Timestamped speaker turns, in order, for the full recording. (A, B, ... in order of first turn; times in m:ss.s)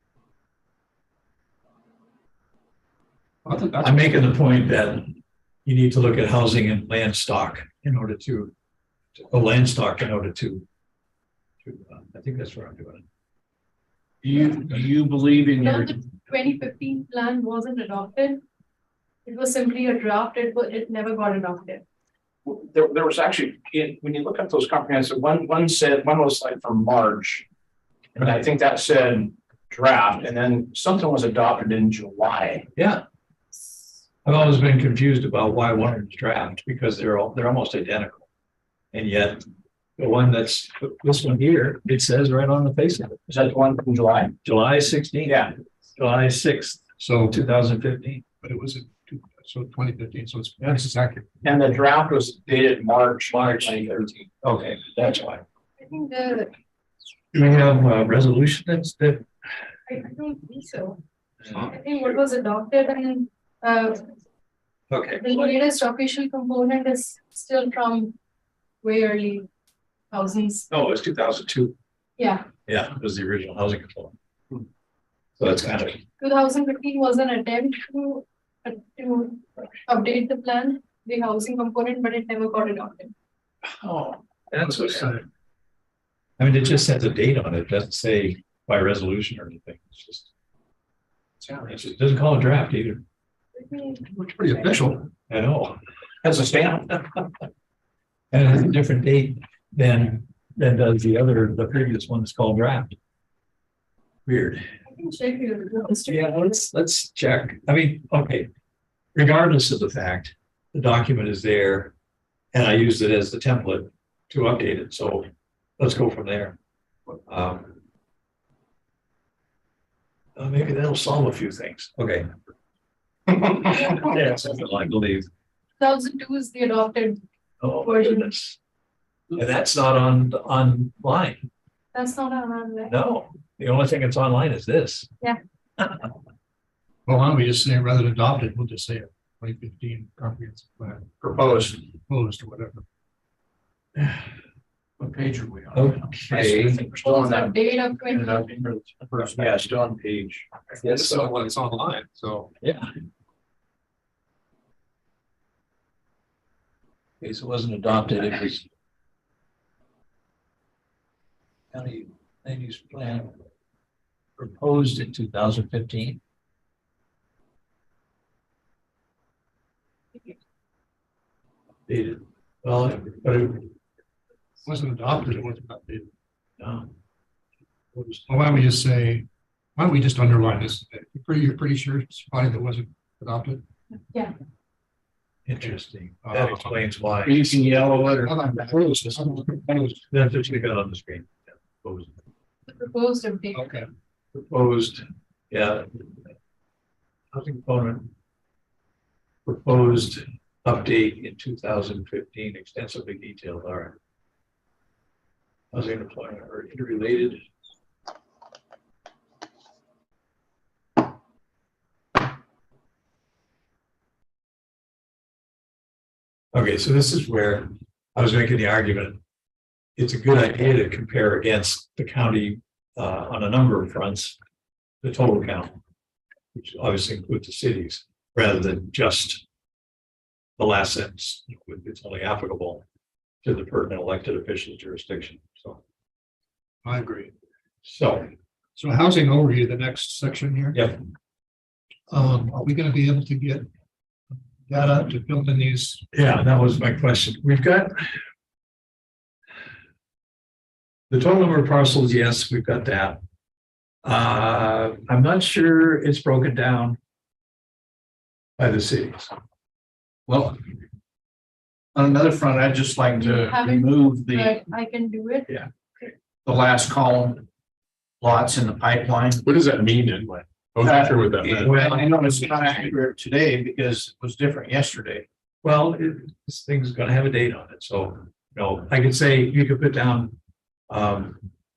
0:03.4-0:04.2 A
0:03.8-0:08.5 B
0:09.2-0:10.6 B
0:11.6-0:13.0 B
0:14.2-0:16.0 C
0:15.6-0:18.4 D
0:19.2-0:21.8 D
0:22.4-0:27.4 C
0:28.2-0:32.7 C
0:32.8-0:33.0 B
0:34.2-0:38.3 B
0:38.9-0:39.4 B
0:40.0-0:43.2 B
0:43.3-0:44.3 C
0:44.4-0:48.2 B
0:45.3-0:45.5 C
0:47.0-0:47.4 A
0:48.4-0:51.3 A
0:51.4-0:54.1 C
0:53.3-0:55.4 B
0:55.8-0:56.5 D
0:57.3-0:59.3 B
0:59.9-1:04.1 D
1:04.9-1:05.5 B
1:05.2-1:08.2 D
1:08.8-1:09.5 D
1:10.1-1:10.7 D
1:10.7-1:11.7 B
1:12.2-1:12.5 D
1:12.7-1:14.1 B
1:15.4-1:16.0 B
1:16.2-1:23.1 D
1:23.8-1:25.2 B
1:24.8-1:25.2 A
1:26.4-1:30.3 B
1:31.7-1:33.0 B
1:33.6-1:34.0 D
1:34.1-1:35.1 A
1:35.3-1:35.8 B
1:36.2-1:36.9 C
1:38.3-1:43.0 B
1:44.3-1:44.6 B
1:44.9-1:46.3 D
1:46.1-1:48.5 B
1:49.2-1:51.9 B
1:52.5-1:56.6 B
1:57.3-1:57.8 B
2:00.4-2:02.3 B
2:03.5-2:05.3 B
2:05.8-2:07.2 D
2:07.6-2:08.6 B
2:07.8-2:08.3 D
2:09.4-2:11.4 B
2:11.9-2:13.0 D
2:12.9-2:15.1 B
2:17.1-2:21.1 A
2:21.2-2:21.8 C
2:22.1-2:22.8 A
2:25.0-2:31.2 C
2:25.7-2:26.8 B
2:26.8-2:28.5 D
2:30.8-2:32.5 A
2:32.6-2:32.9 B
2:37.2-2:38.7 B
2:41.7-2:43.4 B
2:44.4-2:46.2 B
2:51.9-2:53.7 B
2:54.6-2:56.1 A
2:56.6-2:56.9 B
2:58.0-2:58.3 B
2:58.3-3:03.6 A
3:05.5-3:07.6 B
3:05.6-3:06.8 A
3:07.2-3:09.8 C
3:08.2-3:10.0 A
3:10.1-3:12.2 B
3:12.7-3:13.7 D
3:13.5-3:13.9 A
3:14.3-3:16.2 B
3:17.3-3:18.1 B
3:19.5-3:24.0 B
3:25.7-3:27.4 B
3:36.5-3:39.2 B
3:40.0-3:44.4 B
3:45.0-3:45.8 B
3:46.5-3:49.4 B
3:50.6-3:52.8 B
3:53.4-3:55.8 B
3:56.8-3:57.3 A
3:57.8-3:58.3 B
3:58.8-4:00.8 A
4:00.7-4:01.0 B
4:02.1-4:03.7 A
4:04.7-4:06.0 A
4:06.1-4:08.2 B
4:11.1-4:13.2 B
4:14.0-4:17.0 B
4:18.6-4:19.3 B
4:20.3-4:20.6 C
4:22.0-4:24.6 C
4:23.2-4:25.5 D
4:26.4-4:27.4 C
4:28.2-4:29.4 C
4:29.4-4:31.9 E
4:30.8-4:35.2 C
4:31.6-4:32.0 B
4:35.6-4:40.4 B
4:40.9-4:41.5 B